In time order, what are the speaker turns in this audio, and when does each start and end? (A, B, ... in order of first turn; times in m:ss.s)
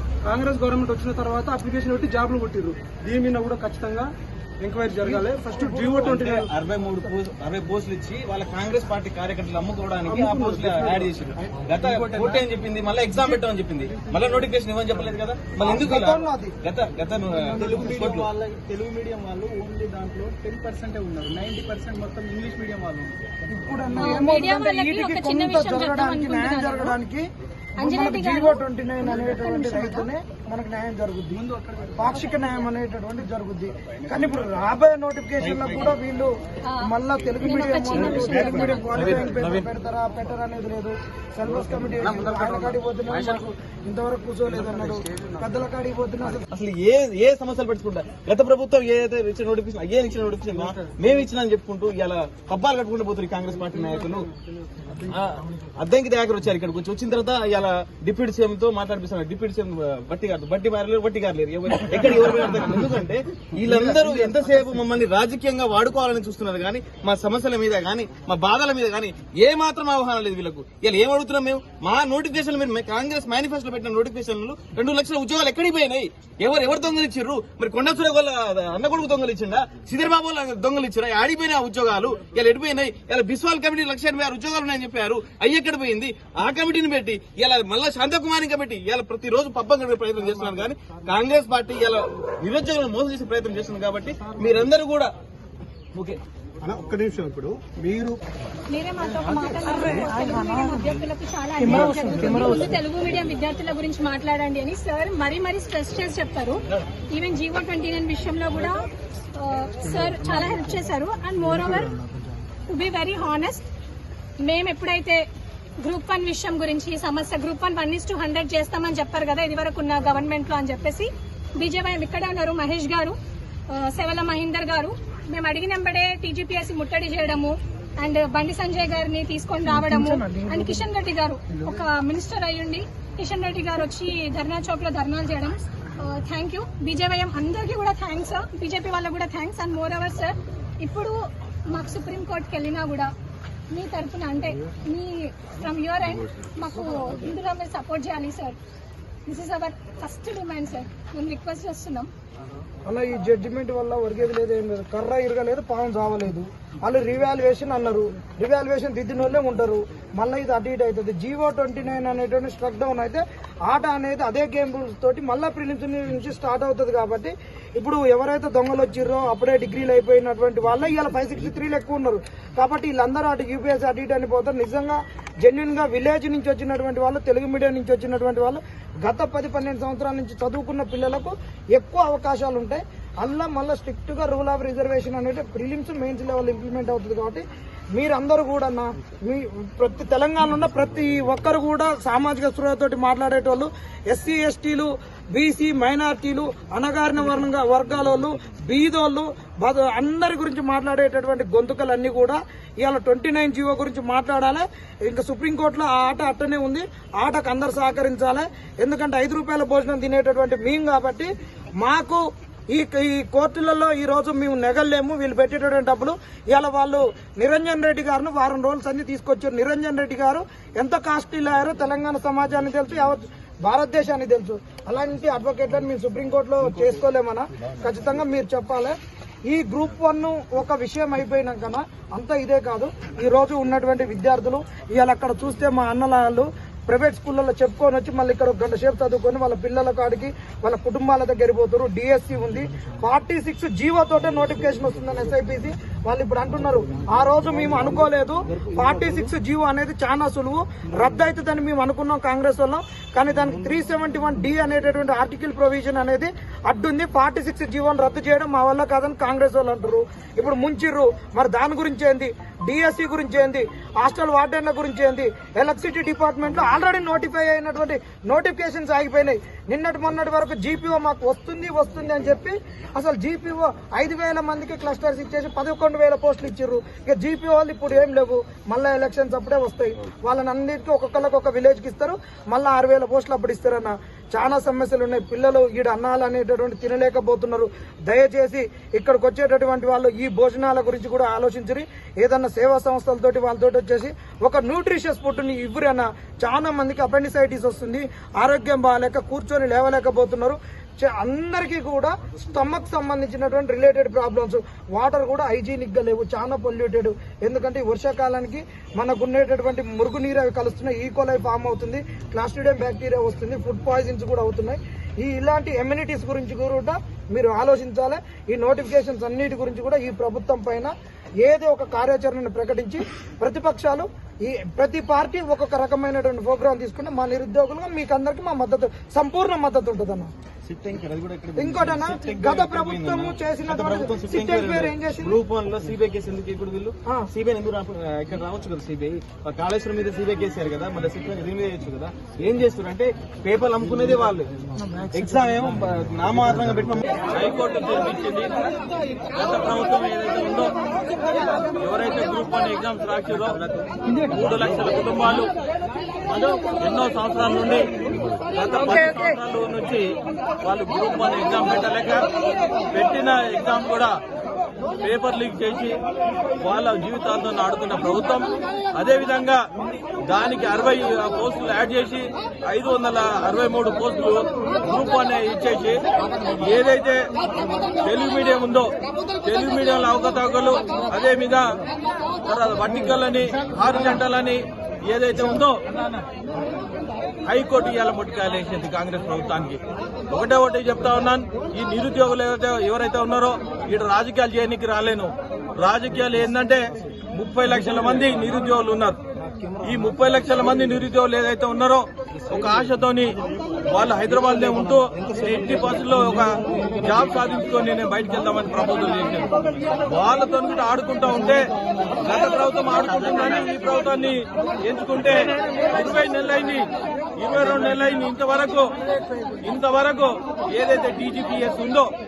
0:00.2-0:04.1 A
0:04.6-0:06.4 A
0:05.0-0:06.2 B
0:06.0-0:18.3 C
0:10.1-0:11.0 A
0:11.9-0:12.3 D
0:15.6-0:16.5 B
0:17.5-0:23.2 D
0:17.5-0:18.1 B
0:23.5-0:27.2 B
0:23.9-0:27.0 E
0:27.8-0:30.1 E
0:27.8-0:31.4 B
0:31.4-0:32.2 D
0:32.0-0:36.3 B
0:32.2-0:32.7 E
0:35.4-0:35.9 C
0:36.8-0:46.4 B
0:37.4-0:38.9 E
0:42.1-0:42.7 D
0:46.5-0:54.3 C
0:55.0-1:35.1 C
1:36.8-1:37.2 B
1:37.5-1:37.9 D
1:38.7-1:48.8 E
1:39.6-1:41.0 B
1:41.6-1:42.7 B
1:49.4-1:51.9 E
1:52.7-1:53.7 E
1:54.4-1:55.2 E
1:55.8-2:03.2 E
2:03.7-2:21.2 E
2:09.6-2:10.9 B
2:21.7-2:23.1 E
2:23.7-2:28.6 E
2:29.2-2:32.1 E
2:32.8-5:20.9 B
5:21.4-5:30.3 B
5:30.6-5:44.5 C
5:31.6-5:35.4 B
5:44.8-5:45.5 B
5:45.1-5:47.1 C
5:47.3-5:48.5 F
5:49.3-5:50.7 F
5:51.5-5:53.6 F
5:54.3-5:55.5 F
5:56.3-5:57.9 F
5:58.5-6:02.3 F
5:58.8-5:59.2 B
6:02.9-6:04.2 F
6:05.0-6:06.0 F
6:06.6-6:09.7 F
6:10.2-6:16.0 F
6:16.6-6:17.3 F
6:18.0-6:18.9 F
6:19.4-6:21.6 F
6:22.4-6:25.8 F
6:27.4-6:39.2 F
6:39.8-6:43.4 F
6:43.9-6:49.5 F
6:50.0-6:58.9 F
6:59.6-7:02.1 F